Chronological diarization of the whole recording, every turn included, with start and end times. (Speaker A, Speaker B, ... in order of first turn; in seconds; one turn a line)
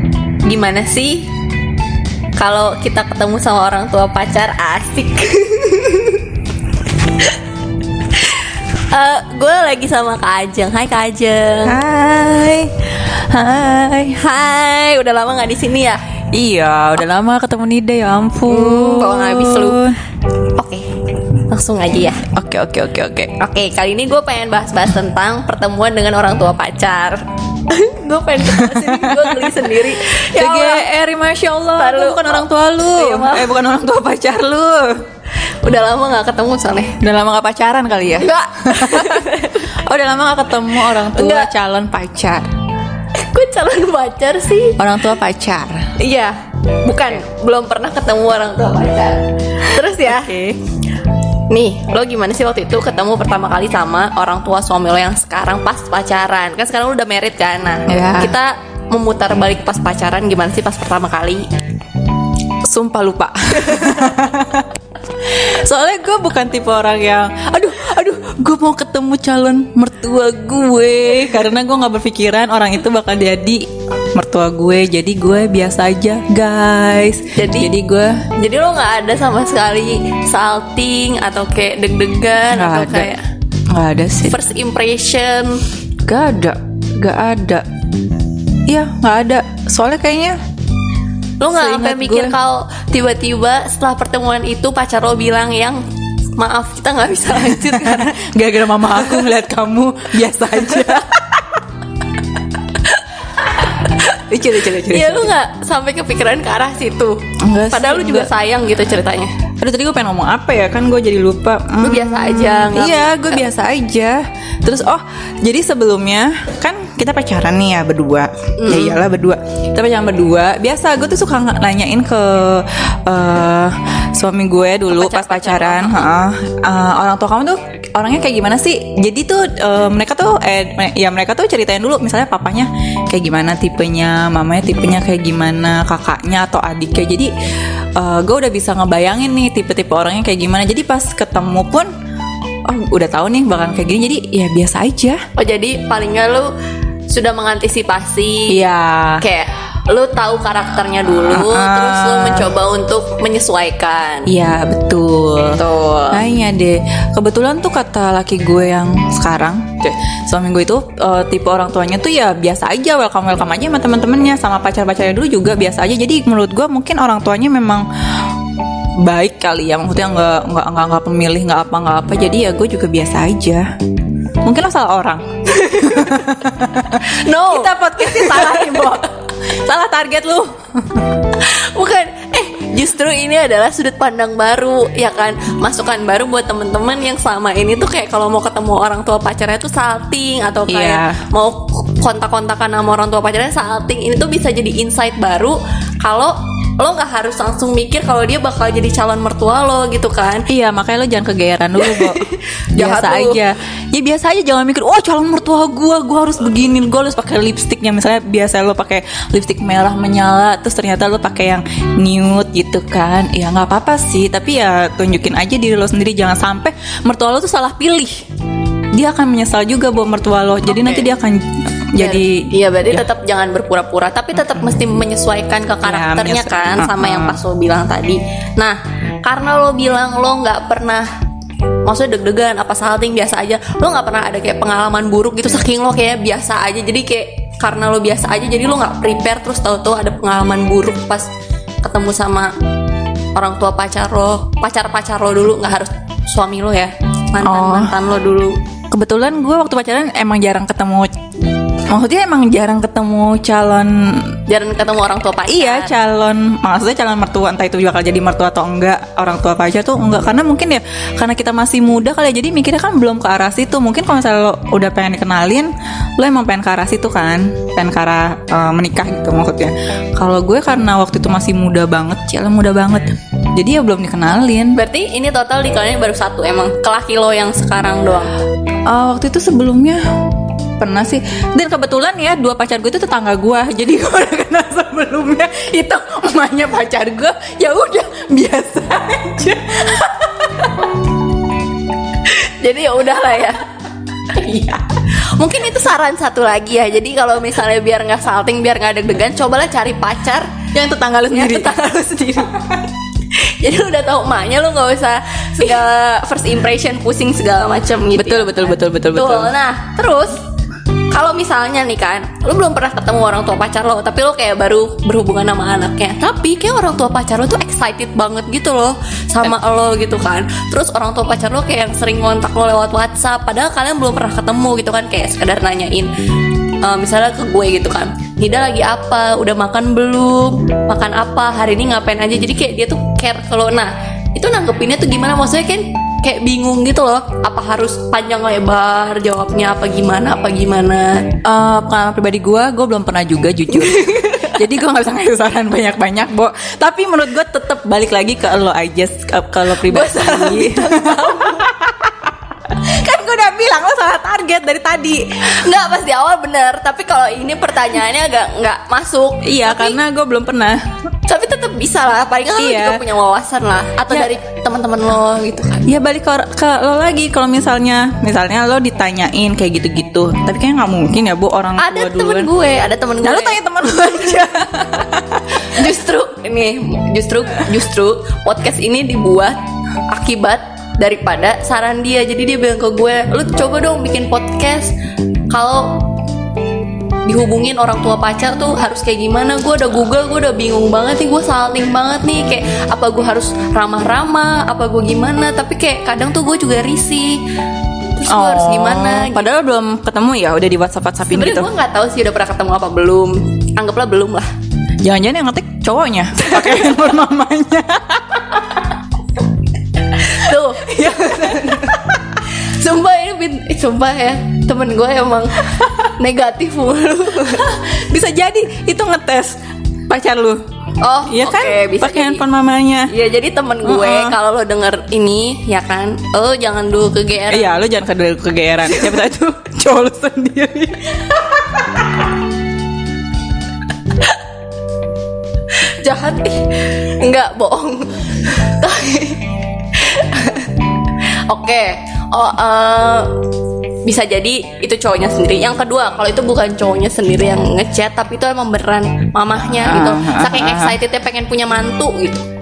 Speaker A: 0.4-1.3
Speaker A: 2.4-6.2
Speaker A: 8.1-11.8
Speaker B: 11.6-14.2
Speaker A: 14.1-16.0
Speaker B: 16.3-20.0
Speaker A: 18.5-19.8
Speaker A: 20.6-22.3
Speaker B: 22.3-23.4
Speaker A: 23.4-30.9
Speaker B: 28.5-35.0
Speaker A: 31.8-33.5
Speaker A: 35.6-37.0
Speaker B: 37.0-42.5
Speaker A: 38.1-39.7
Speaker A: 40.9-41.5
Speaker A: 43.1-44.8
Speaker B: 44.8-45.9
Speaker A: 46.0-50.3
Speaker B: 50.0-50.6
Speaker A: 51.5-61.5
Speaker B: 57.9-58.3
Speaker B: 62.6-64.7
Speaker B: 65.3-78.2
Speaker A: 77.3-77.7
Speaker A: 78.3-83.2
Speaker B: 82.5-83.1
Speaker B: 83.7-84.4
Speaker A: 84.3-85.6
Speaker B: 86.0-87.7
Speaker B: 88.7-90.4
Speaker A: 91.4-95.8
Speaker B: 91.5-92.3
Speaker A: 96.3-98.2
Speaker B: 97.4-101.6
Speaker A: 98.9-99.3
Speaker A: 100.6-100.9
Speaker A: 102.6-107.2
Speaker B: 104.3-105.3
Speaker B: 107.4-108.3
Speaker A: 107.7-109.3
Speaker B: 109.6-137.3
Speaker A: 111.8-113.4
Speaker A: 118.6-119.0
Speaker A: 124.9-126.1
Speaker B: 138.0-141.9
Speaker B: 142.7-145.2
Speaker A: 145.3-146.5
Speaker A: 147.1-148.6
Speaker B: 148.5-149.2
Speaker A: 149.2-154.3
Speaker B: 151.1-152.5
Speaker B: 154.3-168.3
Speaker A: 155.6-156.2
Speaker B: 169.0-173.7
Speaker B: 174.4-181.1
Speaker A: 175.5-176.2
Speaker A: 176.9-179.1
Speaker A: 181.3-200.4
Speaker B: 190.7-191.2
Speaker B: 200.5-218.2
Speaker A: 201.8-203.4
Speaker B: 218.9-223.1
Speaker A: 220.7-221.1
Speaker A: 222.0-231.1
Speaker B: 225.8-227.4
Speaker A: 231.8-241.3
Speaker A: 241.8-242.5
Speaker A: 243.3-248.6
Speaker B: 247.4-247.9
Speaker B: 248.9-251.1
Speaker B: 251.9-254.4
Speaker A: 254.5-255.9
Speaker B: 255.5-274.8
Speaker A: 274.8-278.3
Speaker B: 278.9-280.0
Speaker B: 280.8-290.7
Speaker A: 292.2-293.7
Speaker A: 294.2-300.7
Speaker B: 300.7-301.8
Speaker A: 301.3-310.4
Speaker B: 308.1-309.5
Speaker A: 311.1-326.1
Speaker A: 326.8-341.2
Speaker B: 341.4-355.5
Speaker A: 343.7-344.6
Speaker A: 349.7-351.7
Speaker A: 355.4-360.0
Speaker B: 359.4-360.8
Speaker A: 361.3-366.0
Speaker B: 362.6-363.0
Speaker B: 365.8-372.5
Speaker A: 371.8-374.3
Speaker B: 373.2-375.6
Speaker A: 375.6-379.6
Speaker A: 380.1-384.9
Speaker A: 385.5-386.0
Speaker A: 387.2-397.4
Speaker A: 398.1-399.4
Speaker B: 398.3-401.7
Speaker A: 401.2-404.5
Speaker B: 405.0-408.9
Speaker A: 406.4-407.0
Speaker A: 410.0-417.7
Speaker B: 411.0-411.8
Speaker B: 417.5-420.6
Speaker A: 421.0-422.4
Speaker B: 421.2-423.1
Speaker A: 423.1-427.7
Speaker B: 423.8-424.3
Speaker B: 427.5-431.4
Speaker A: 428.9-429.3
Speaker A: 431.3-432.0
Speaker A: 435.8-440.7
Speaker A: 441.5-443.4
Speaker A: 444.0-452.4
Speaker B: 449.8-451.0